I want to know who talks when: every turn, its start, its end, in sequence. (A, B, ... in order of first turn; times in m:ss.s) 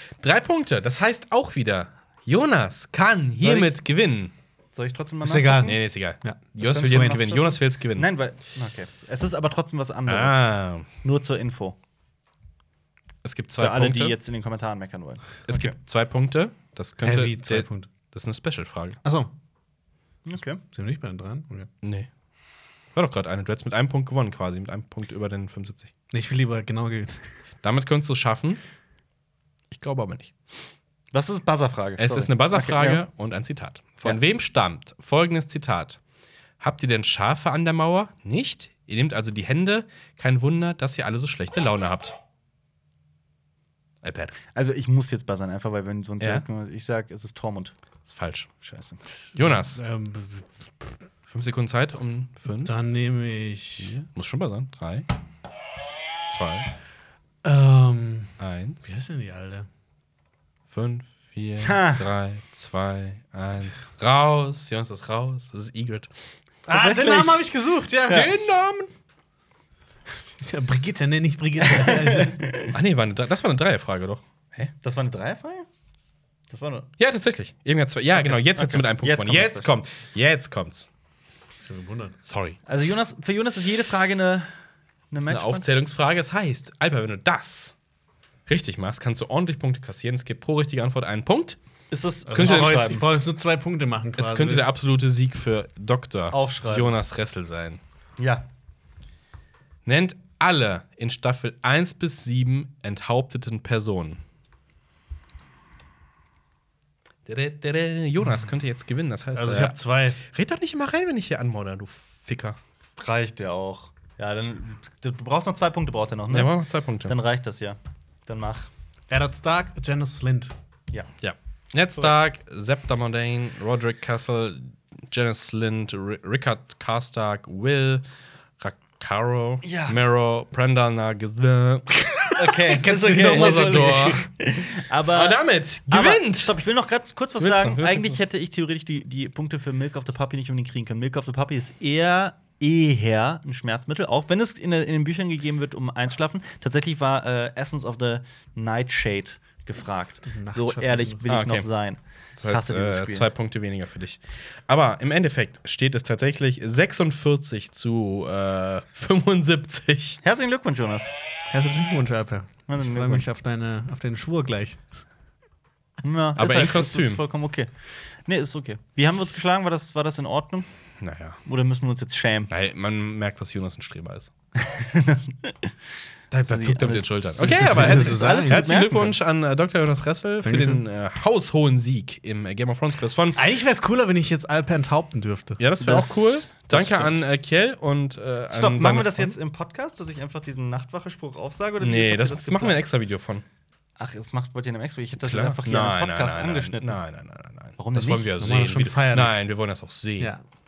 0:00.2-0:04.3 A
0:03.4-0:03.7 B
0:04.7-0:05.8 B
0:05.2-0:07.2 C
0:05.6-0:08.1 A
0:06.6-0:10.5 B
0:10.1-0:10.9 A
0:11.0-0:11.8 B
0:13.2-0:14.2 A
0:13.6-0:15.7 B
0:15.5-0:19.0 A
0:17.0-0:17.9 C
0:19.0-0:19.3 C
0:20.2-0:20.6 B
0:20.7-0:21.7 C
0:21.8-0:22.1 A
0:22.9-0:25.9 A
0:26.1-0:27.3 C
0:27.6-0:28.6 A
0:29.7-0:30.3 A
0:31.1-0:33.0 B
0:32.0-0:36.0 A
0:36.6-0:42.1 A
0:44.0-0:44.4 A
0:44.5-0:47.7 B
0:46.2-0:46.4 A
0:48.0-0:48.6 A
0:48.6-0:49.0 B
0:49.4-0:49.8 A
0:49.4-0:50.5 C
0:51.3-0:52.7 A
0:52.6-0:54.0 C
0:53.8-0:55.1 A
0:56.3-0:56.7 A
0:57.4-0:59.7 C
0:58.4-0:58.9 A
1:00.7-1:06.1 A
1:01.6-1:02.0 B
1:06.6-1:08.3 C
1:06.7-1:07.4 B
1:08.1-1:08.9 A
1:10.4-1:12.5 C
1:11.7-1:12.7 B
1:12.7-1:14.7 A
1:14.8-1:15.7 B
1:16.5-1:16.9 B
1:17.0-1:20.9 A
1:18.1-1:19.7 B
1:21.6-1:22.2 C
1:22.2-1:22.6 A
1:22.6-1:24.5 B
1:25.1-1:25.7 B
1:25.2-1:27.7 A
1:28.5-1:31.6 A
1:31.9-1:33.0 B
1:32.3-1:34.7 C
1:32.3-1:32.9 A
1:34.2-1:37.8 A
1:36.3-1:37.0 B
1:38.2-1:38.4 B
1:39.8-1:44.2 A
1:47.2-1:52.6 A
1:49.3-1:50.2 C
1:53.0-1:58.7 B
1:56.3-1:57.1 A
1:59.1-2:00.5 C
2:01.2-2:08.0 A
2:08.6-2:12.2 A
2:09.6-2:10.0 B
2:12.4-2:33.3 B
2:12.4-2:14.2 C
2:12.9-2:14.2 A
2:15.1-2:16.6 A
2:17.4-2:18.2 A
2:30.2-2:31.2 C
2:31.3-2:31.7 A
2:32.4-2:40.2 A
2:40.2-2:41.1 B
2:41.5-2:44.8 C
2:42.7-2:43.2 B
2:46.0-2:47.7 B
2:46.4-2:47.2 A
2:48.2-2:50.7 B
2:51.0-2:51.4 A
2:51.4-2:52.5 B
2:52.5-2:54.3 A
2:54.6-2:55.7 B
2:56.3-3:03.4 A
2:56.5-2:59.0 B
2:57.4-2:59.1 C
3:00.4-3:00.8 C
3:03.3-3:07.2 C
3:05.6-3:09.3 A
3:08.5-3:12.8 B
3:11.8-3:13.4 A
3:14.0-3:17.0 B
3:15.2-3:20.3 A
3:17.8-3:18.3 B
3:18.4-3:19.4 C
3:20.2-3:20.4 C